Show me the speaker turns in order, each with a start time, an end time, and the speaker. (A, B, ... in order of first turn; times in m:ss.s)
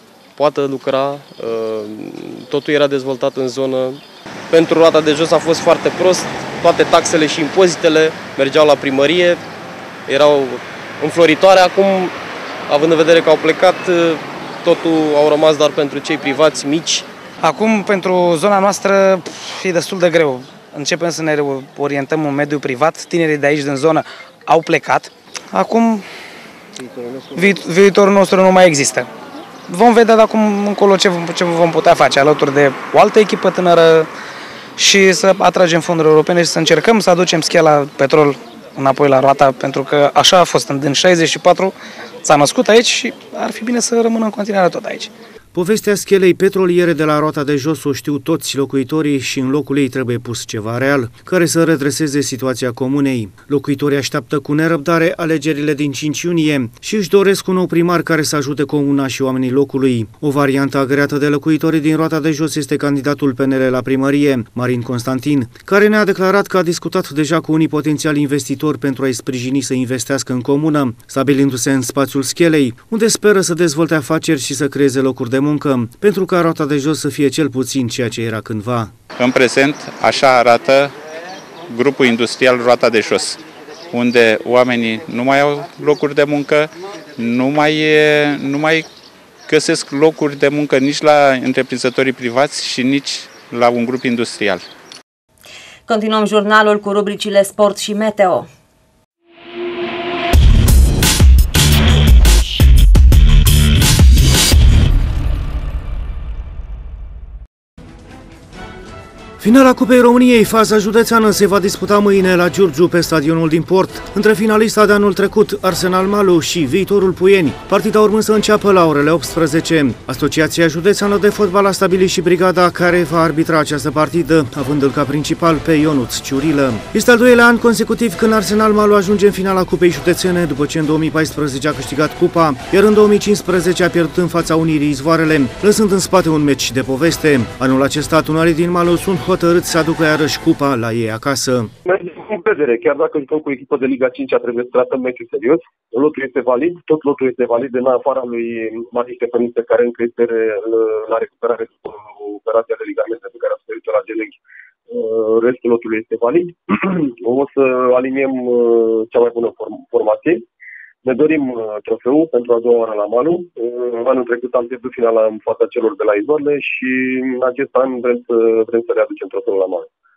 0:00.4-0:09.4 A
0:10.1-0:12.1 A
0:12.7-0:17.0 A
0:17.4-0:26.0 B
0:27.3-0:29.1 B
0:29.7-0:34.1 B
0:34.8-0:45.1 B
0:45.5-1:18.9 C
1:19.2-1:20.9 D
1:21.7-1:23.4 D
1:23.9-1:28.9 D
1:29.5-1:34.6 D
1:35.9-1:38.5 E
1:49.4-2:21.7 C
2:21.8-2:34.4 F
2:34.9-2:40.4 F
2:41.0-2:49.9 F